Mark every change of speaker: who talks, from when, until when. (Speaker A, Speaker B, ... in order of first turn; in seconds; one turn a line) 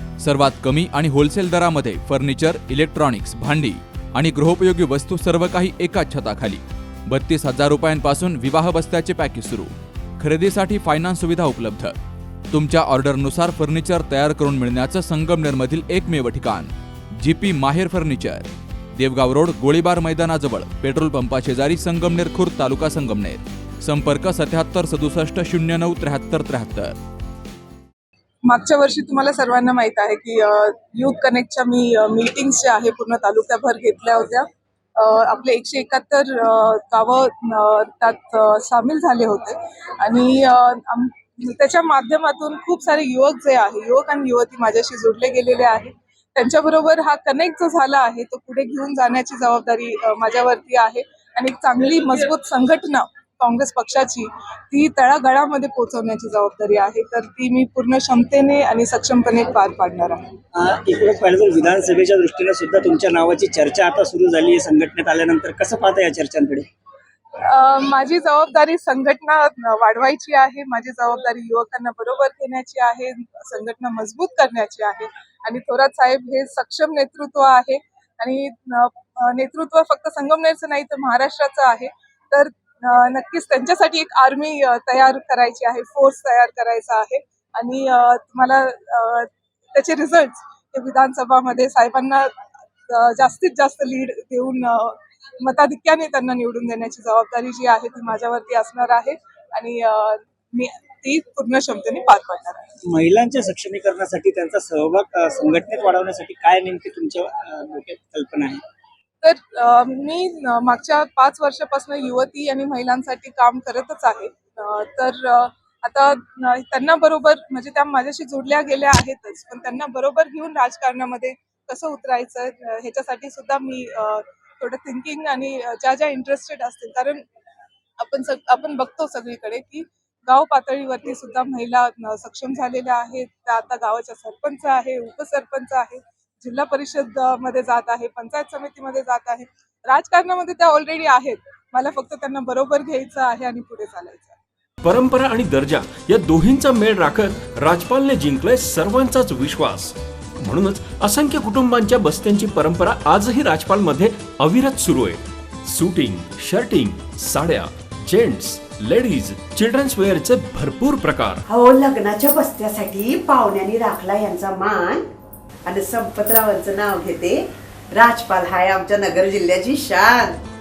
Speaker A: 0.2-11.9
Speaker A: 12.5-26.9
Speaker B: 28.4-60.3
Speaker C: 60.5-66.7
Speaker B: 67.4-92.3
Speaker B: 92.9-102.7
Speaker C: 102.8-108.6
Speaker B: 109.2-127.2
Speaker B: 128.0-144.4
Speaker D: 144.8-161.4
Speaker E: 161.5-165.1
Speaker E: 165.6-170.4